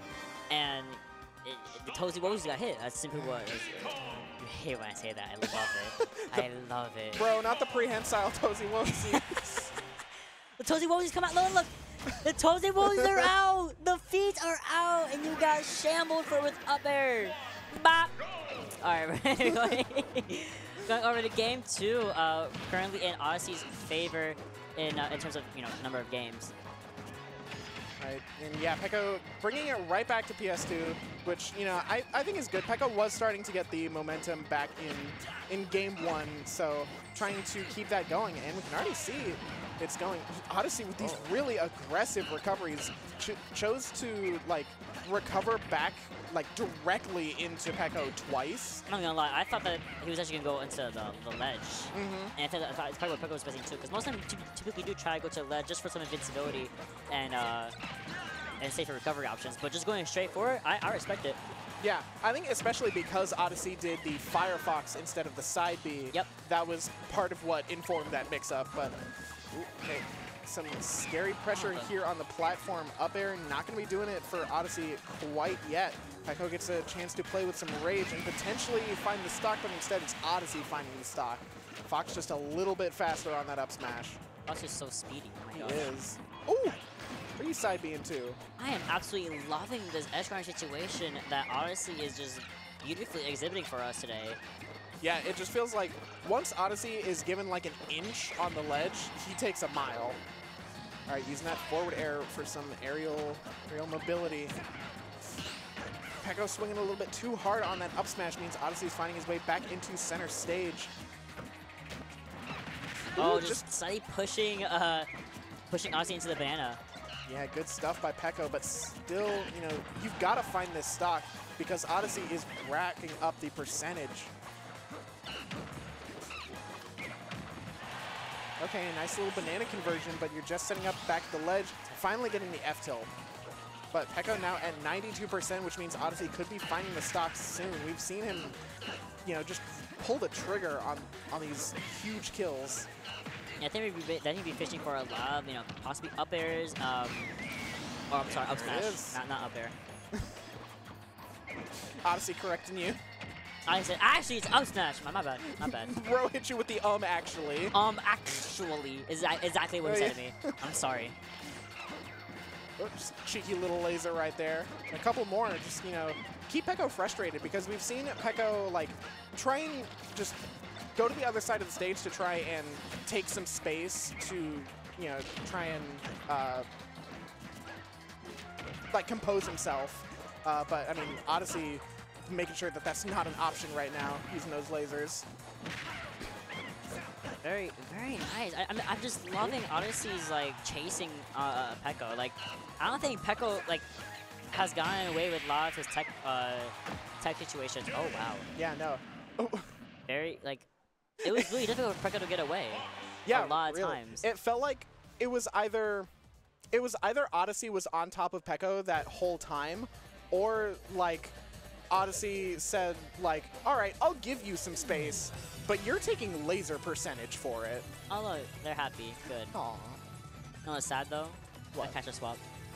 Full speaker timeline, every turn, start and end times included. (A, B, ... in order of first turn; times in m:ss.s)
0:00.5-0:07.3 A
0:03.1-0:03.4 B
0:05.5-0:06.4 B
0:07.1-0:09.7 B
0:08.9-0:09.5 A
0:10.6-0:18.1 A
0:12.8-0:13.3 B
0:18.8-0:26.5 A
0:19.4-0:19.7 B
0:28.0-0:48.8 B
0:41.0-0:41.3 A
0:48.9-0:57.7 A
0:51.9-0:52.3 B
0:58.6-1:01.4 A
1:01.8-1:09.0 B
1:09.5-1:24.2 B
1:11.5-1:11.9 A
1:24.4-1:25.9 A
1:25.5-1:26.8 B
1:27.4-1:28.4 B
1:28.6-1:34.4 A
1:35.0-1:40.2 B
1:41.1-1:44.6 B
1:46.2-1:50.9 B
1:53.1-1:53.7 B
1:53.2-1:55.1 A
1:55.7-1:56.8 A
1:57.2-2:04.3 B
2:08.6-2:13.1 B
2:13.9-2:18.6 B
2:19.2-2:22.9 B
2:23.6-2:27.3 A
2:28.1-2:29.7 A
2:28.2-2:29.2 B
2:32.0-2:33.0 B
2:33.6-2:35.9 A
2:35.4-2:37.7 B
2:37.7-2:41.2 A
2:39.8-2:40.5 B
2:42.8-2:50.4 B
2:51.0-2:56.7 B
2:58.9-3:05.2 B
3:07.4-3:13.9 A
3:14.5-3:18.5 A
3:18.6-3:19.7 B
3:20.1-3:20.7 A
3:21.2-3:21.7 B
3:21.2-3:24.2 A
3:23.2-3:26.1 B
3:26.7-3:31.4 B
3:31.9-3:37.9 B
3:38.1-3:39.6 A
3:39.5-3:40.0 B
3:40.6-3:42.4 A